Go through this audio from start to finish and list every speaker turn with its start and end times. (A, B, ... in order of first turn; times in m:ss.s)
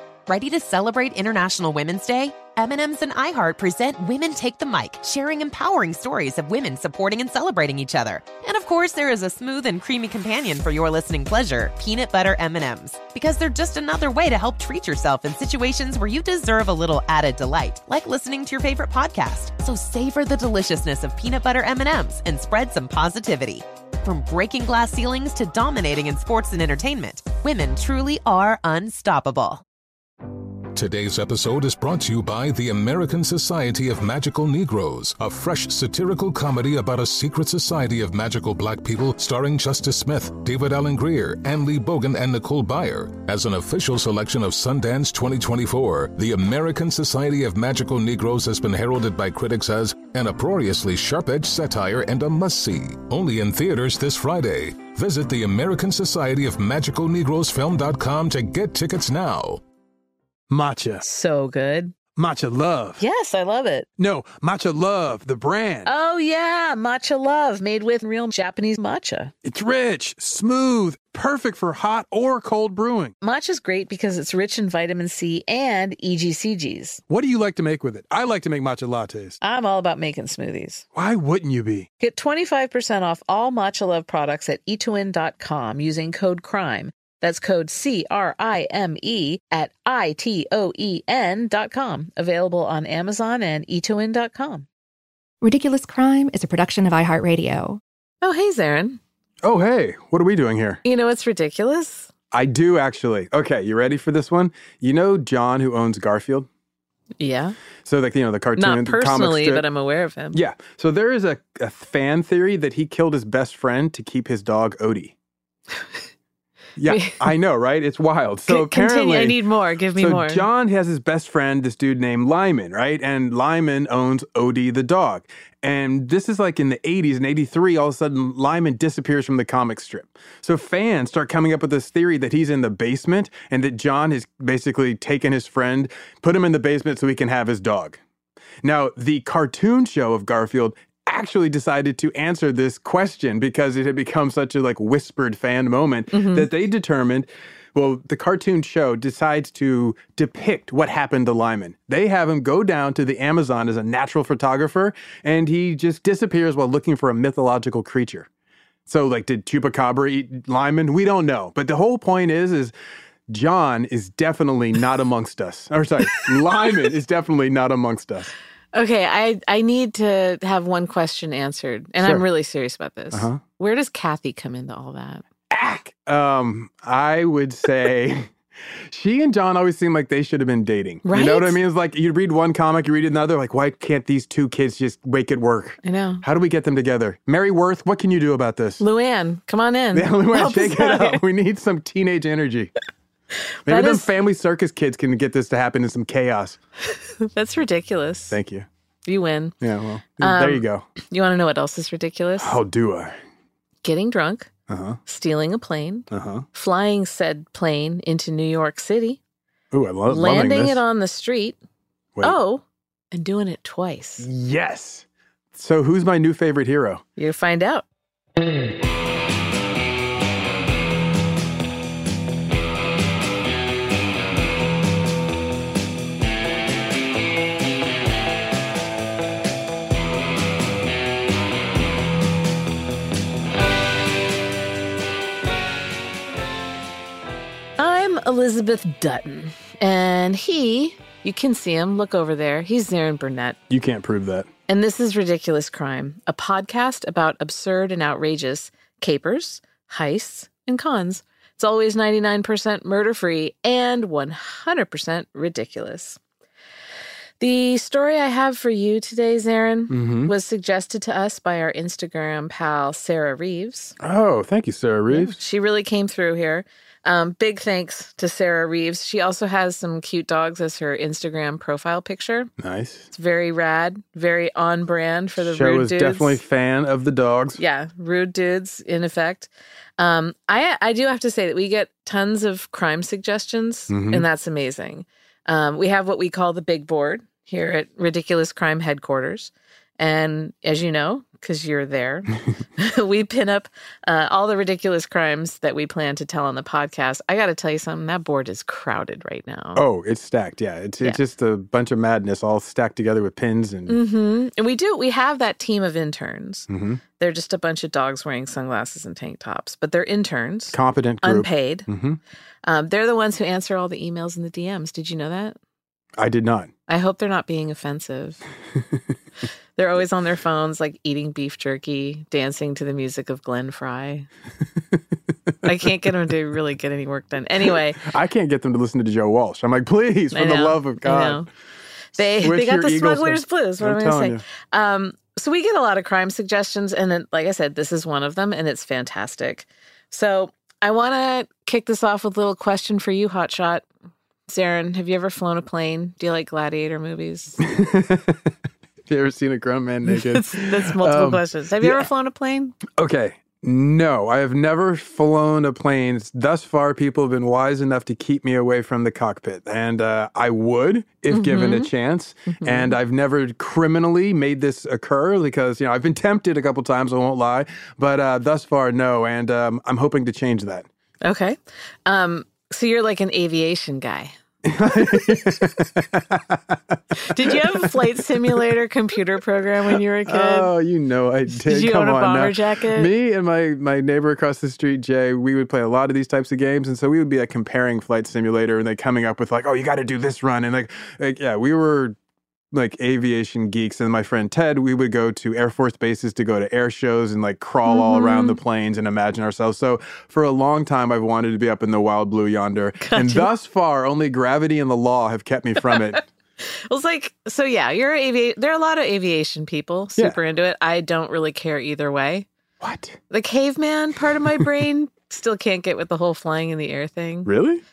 0:00.3-0:29.6 A
0:30.7-0:59.6 B
1:00.5-1:01.0 C
1:01.0-1:01.9 D
1:02.2-1:03.0 C
1:03.0-1:03.9 D
1:04.0-1:05.9 C
1:05.8-1:09.3 D
1:09.4-1:13.1 C
1:13.2-1:17.0 D
1:17.1-1:19.4 C
1:19.4-1:20.8 D
1:20.9-1:21.9 C
1:22.0-1:34.7 D
1:35.4-1:37.8 E
1:38.2-1:39.0 D
1:39.4-1:40.8 C
1:40.8-1:42.1 D
1:42.3-1:46.5 C
1:47.2-1:47.5 D
1:47.8-1:49.6 C
1:48.6-1:50.4 D
1:50.3-1:55.1 C
1:56.8-1:59.4 C
1:56.9-1:57.3 D
1:58.5-2:00.4 D
2:00.0-2:18.0 C
2:18.6-2:38.3 C
2:26.1-2:26.5 D
2:38.9-2:42.7 C
2:43.3-2:48.3 C
2:48.7-2:55.2 D
2:53.1-2:53.4 C
2:55.5-2:58.3 C
2:58.9-3:08.8 C
3:01.0-3:01.6 D
3:05.8-3:06.2 D
3:08.8-3:11.2 D
3:09.9-3:12.7 C
3:13.6-3:14.1 D
3:13.7-3:16.6 C
3:17.2-3:18.4 D
3:18.3-3:18.6 C
3:19.0-3:19.6 D
3:19.6-3:20.8 C
3:20.2-3:22.6 D
3:22.4-3:23.1 C
3:23.8-3:24.5 D
3:24.7-3:25.0 C
3:25.0-3:29.2 D
3:26.1-3:26.4 C
3:29.7-3:30.8 C
3:30.1-3:31.6 D
3:32.2-3:34.3 D
3:34.2-3:37.0 C
3:37.2-3:37.8 D
3:57.8-4:03.6 D
4:03.7-4:04.5 C
4:04.7-4:16.2 D
4:17.4-4:24.0 D
4:19.9-4:20.3 C
4:24.0-4:25.4 C
4:25.1-4:32.5 D
4:32.6-4:33.1 C
4:33.1-4:36.4 D
4:35.4-4:37.6 C
4:37.6-4:59.8 D
4:43.9-4:44.2 C
4:59.8-5:04.0 C
5:03.9-5:06.7 D
5:06.7-5:07.0 C
5:07.2-5:11.9 D
5:10.7-5:12.2 C
5:12.6-5:15.6 D
5:16.2-5:16.7 C
5:16.9-5:18.4 D
5:19.8-5:24.3 D
5:25.6-5:28.0 D
5:28.0-5:31.4 C
5:30.3-5:31.5 D
5:32.2-5:43.8 D
5:32.4-5:34.4 C
5:44.5-5:47.6 D
5:47.6-5:48.5 C
5:49.1-5:52.1 C
5:50.1-5:52.8 D
5:53.0-6:10.8 C
6:01.3-6:01.9 D
6:02.5-6:03.0 D
6:11.2-6:14.3 D
6:14.6-6:17.6 C
6:17.2-6:20.7 D
6:20.3-6:32.2 C
6:21.5-6:23.1 D
6:32.7-6:46.2 C
6:37.8-6:38.6 D
6:43.0-6:43.5 D
6:46.9-6:52.5 D
6:52.8-6:53.2 C
6:53.3-6:57.5 D
6:57.4-6:57.8 C